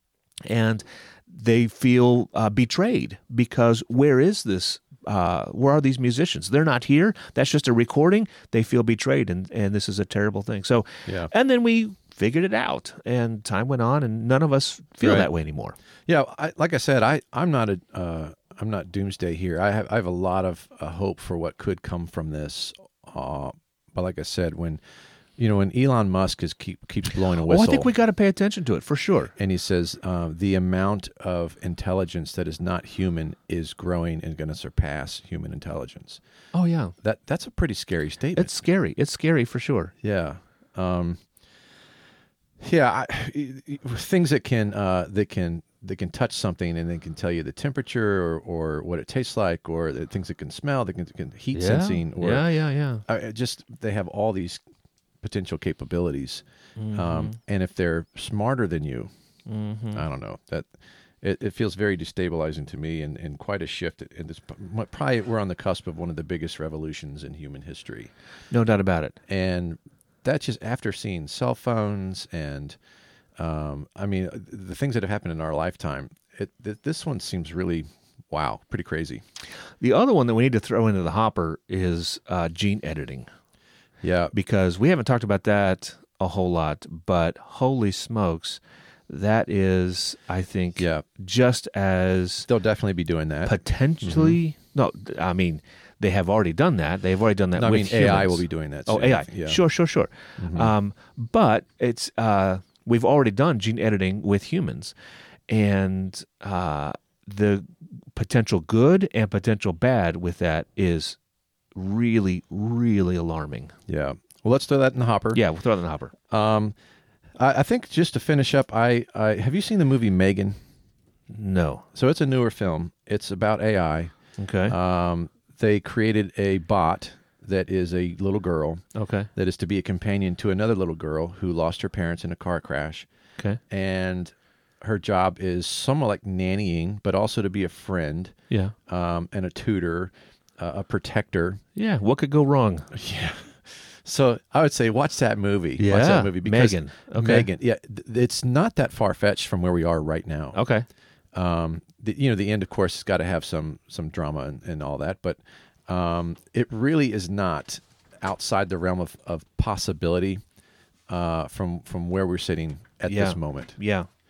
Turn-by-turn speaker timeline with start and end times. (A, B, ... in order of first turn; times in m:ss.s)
0:00.5-0:15.8 A
0:11.0-0:11.3 B
0:15.0-0:15.3 B
0:16.1-0:24.8 B
0:25.4-0:27.9 B
0:27.4-0:29.3 A
0:29.4-0:36.2 B
0:36.5-0:36.9 A
0:37.0-0:38.6 B
0:38.4-0:39.9 A
0:40.0-0:41.2 B
0:42.6-0:52.5 B
0:51.5-0:53.0 A
0:53.0-0:54.6 B
0:55.2-0:59.1 B
0:56.8-0:57.4 A
0:59.5-1:00.0 A
0:59.9-1:00.7 B
1:01.2-1:08.1 B
1:08.5-1:09.2 A
1:09.3-1:12.8 B
1:13.4-1:19.2 B
1:19.8-1:23.3 A
1:24.0-1:24.3 B
1:24.3-1:32.5 A
1:30.8-1:31.0 B
1:32.4-1:34.4 B
1:33.4-1:44.9 A
1:37.6-1:39.6 B
1:40.4-1:40.7 B
1:45.5-1:51.2 A
1:51.7-1:53.7 A
1:53.9-1:55.4 B
1:55.3-1:56.1 A
1:56.3-1:56.7 B
1:57.4-2:00.6 B
2:01.3-2:01.8 A
2:01.9-2:04.1 B
2:04.4-2:04.7 A
2:04.7-2:08.8 B
2:08.9-2:09.3 A
2:09.3-2:13.1 B
2:13.7-2:18.3 B
2:18.9-2:21.6 B
2:21.8-2:22.9 A
2:22.9-2:30.6 B
2:25.8-2:27.5 A
2:30.5-2:30.8 A
2:31.3-2:40.4 B
2:41.1-2:43.8 B
2:43.1-2:44.1 A